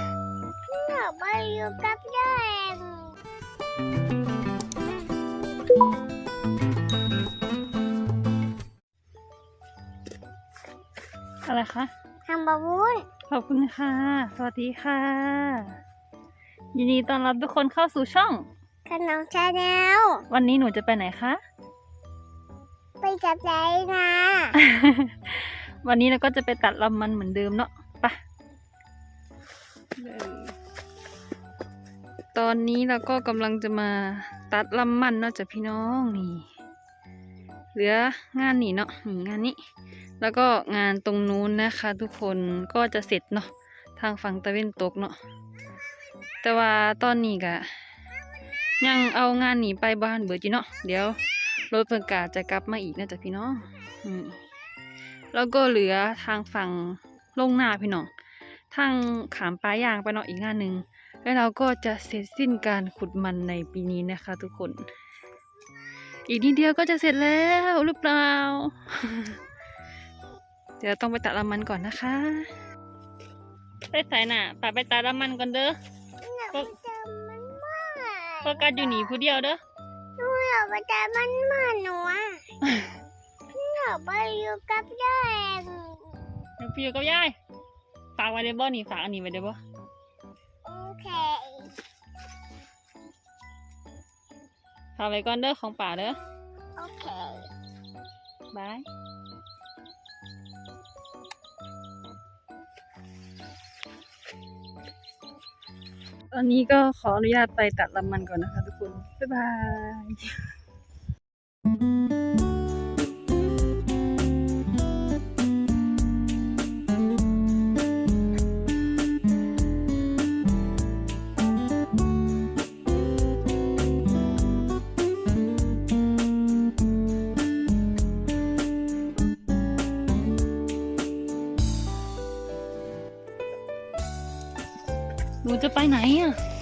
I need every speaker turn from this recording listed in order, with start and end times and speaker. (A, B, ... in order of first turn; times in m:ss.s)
0:00.7-0:03.2 A
0:11.4-0:11.9 B
0:12.3-0:13.1 A
0:13.3-0:15.8 B
0:16.7-0:18.5 B
0:18.9-0:20.2 A
0:20.3-0:21.4 B
0:23.0-0:24.5 A
0:24.5-0:28.2 B
0:30.0-0:30.6 B
0:32.3-0:36.5 B
0:37.7-0:39.6 B
0:40.2-0:45.2 B
0:46.4-0:47.7 B
0:48.8-0:54.4 B
0:55.3-0:58.1 B
0:58.7-1:04.8 B
1:06.3-1:09.4 B
1:10.8-1:12.5 B
1:13.9-1:15.8 B
1:16.2-1:19.2 A
1:18.4-1:19.6 B
1:20.2-1:22.4 A
1:22.6-1:22.9 B
1:23.5-1:26.0 A
1:26.6-1:27.4 B
1:28.2-1:29.6 B
1:30.6-1:31.7 A
1:35.0-1:36.2 B
1:36.8-1:37.5 A
1:38.5-1:38.9 B
1:46.3-1:50.4 B
2:15.4-2:16.4 B